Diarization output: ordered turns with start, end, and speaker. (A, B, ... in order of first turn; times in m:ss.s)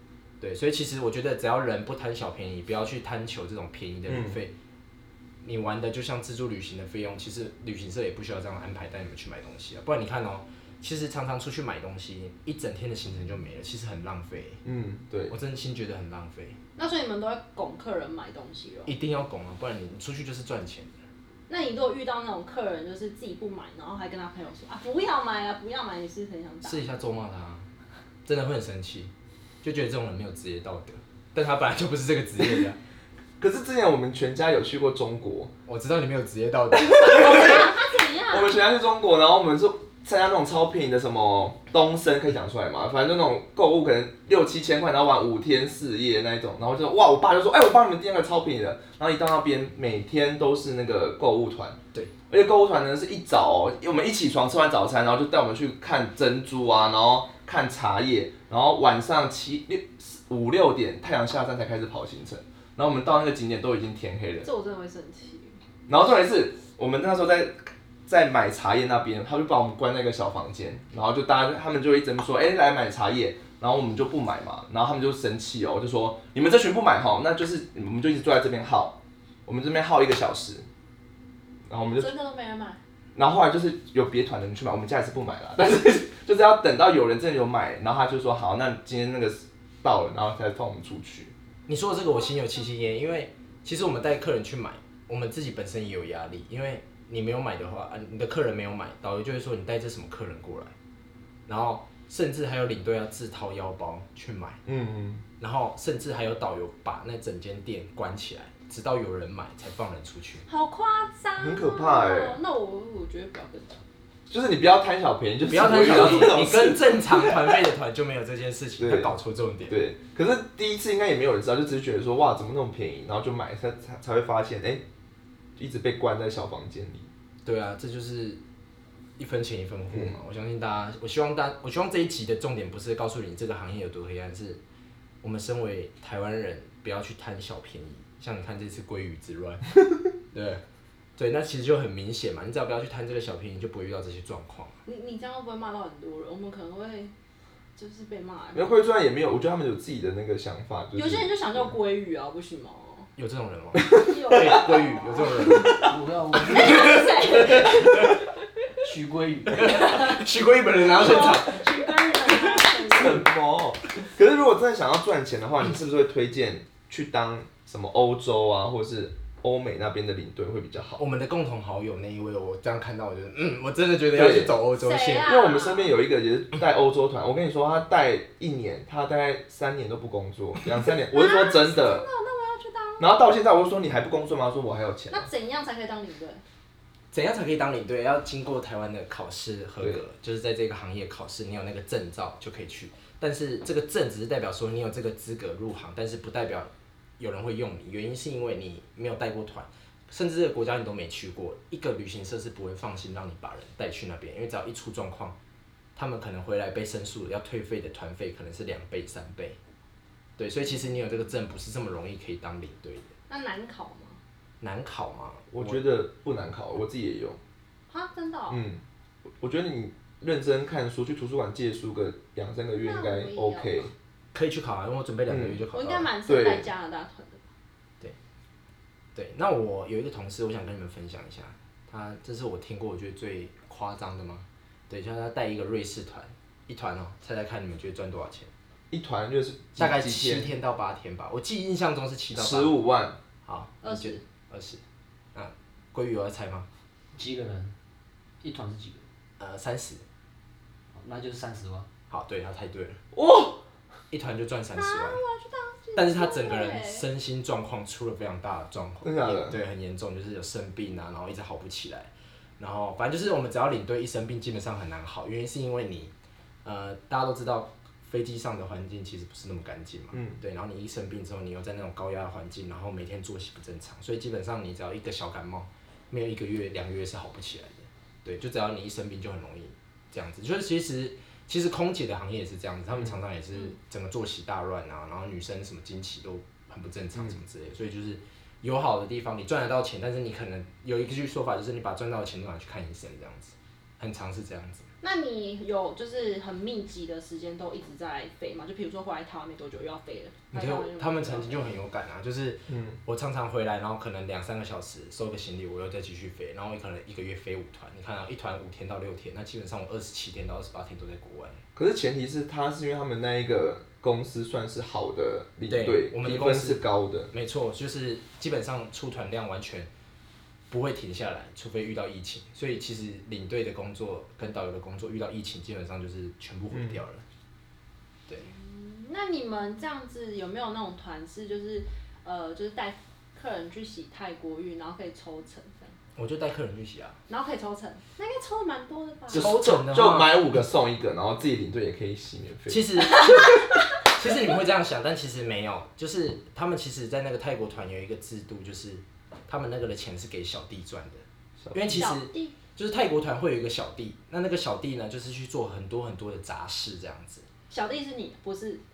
0:00.4-0:04.5 A
0:04.1-0:04.4 B
0:05.4-0:14.6 A
0:14.6-0:15.3 B
0:15.3-0:16.6 A
0:16.8-0:18.9 C
0:18.9-0:21.0 A
0:21.5-0:26.8 C
0:26.6-0:27.7 A
0:28.2-0:29.1 A
0:29.6-0:32.8 A
0:33.4-0:35.5 B
0:35.6-0:37.7 A
0:37.0-0:38.5 C
0:38.3-0:51.8 B
0:52.3-1:04.5 B
1:04.4-1:05.6 C
1:05.9-1:20.7 B
1:21.7-1:22.1 B
1:22.0-1:22.8 C
1:23.1-1:31.3 B
1:31.7-1:40.7 A
1:41.5-1:44.6 A
1:44.6-1:45.2 B
1:45.4-1:50.4 A
1:50.4-1:53.8 C
1:51.4-1:52.4 B
1:54.3-1:57.3 B
1:55.4-1:59.8 A
1:58.8-1:59.1 B
1:59.7-2:04.8 B
2:05.6-2:07.1 B
2:07.4-2:08.4 A
2:09.2-2:14.6 A
2:15.2-2:19.7 A
2:20.2-2:20.6 A
2:21.2-2:24.8 A
2:24.8-2:27.1 C
2:27.8-2:28.7 C
2:28.5-2:31.3 B
2:30.9-2:33.1 C
2:33.2-2:35.8 A
2:33.9-2:35.4 C
2:35.8-2:37.8 D
2:36.4-2:38.1 C
2:36.8-2:38.2 A
2:38.8-2:40.1 D
2:39.5-2:41.7 A
2:39.7-2:40.2 C
2:40.7-2:43.2 C
2:42.2-2:42.7 A
2:42.9-2:51.0 B
2:51.0-2:55.3 A
2:54.1-2:54.5 B
2:54.7-2:56.0 C
2:55.2-3:02.0 B
3:01.1-3:03.1 C
3:03.0-3:05.3 B
3:05.1-3:06.4 C
3:07.1-3:25.3 A
3:26.0-3:29.6 A
3:30.4-3:33.1 A
3:33.3-3:34.2 C
3:34.6-3:35.8 A
3:35.5-3:37.4 B
3:37.9-3:38.6 C
3:38.5-3:38.8 B
3:39.4-3:43.9 B
3:42.7-3:43.8 C
3:44.3-3:46.1 A
3:45.3-3:45.6 B
3:45.7-3:47.4 C
3:46.3-3:46.7 B
3:49.1-3:58.5 A
3:58.9-4:00.5 B
3:59.8-4:02.8 A
4:02.3-4:03.2 B
4:03.4-4:04.8 A
4:03.8-4:04.2 C
4:05.3-4:06.7 A
4:07.2-4:07.7 D
4:08.4-4:09.0 D
4:09.4-4:10.0 A
4:10.9-4:11.9 D
4:12.1-4:13.0 A
4:13.1-4:13.6 B
4:14.1-4:15.2 A
4:14.7-4:17.0 C
4:15.9-4:26.1 A
4:19.0-4:19.6 B
4:26.6-4:54.9 A
4:55.0-5:01.7 C
5:00.5-5:11.6 A
5:02.7-5:03.0 B
5:11.7-5:17.3 B
5:15.7-5:19.9 A
5:20.7-5:27.2 A
5:28.4-5:36.0 C
5:36.2-5:37.2 A
5:37.3-5:39.5 C
5:39.3-5:43.0 B
5:39.3-5:40.4 A
5:42.7-5:57.4 A
5:43.2-5:43.5 C
5:51.8-5:52.6 C
5:57.7-5:58.8 C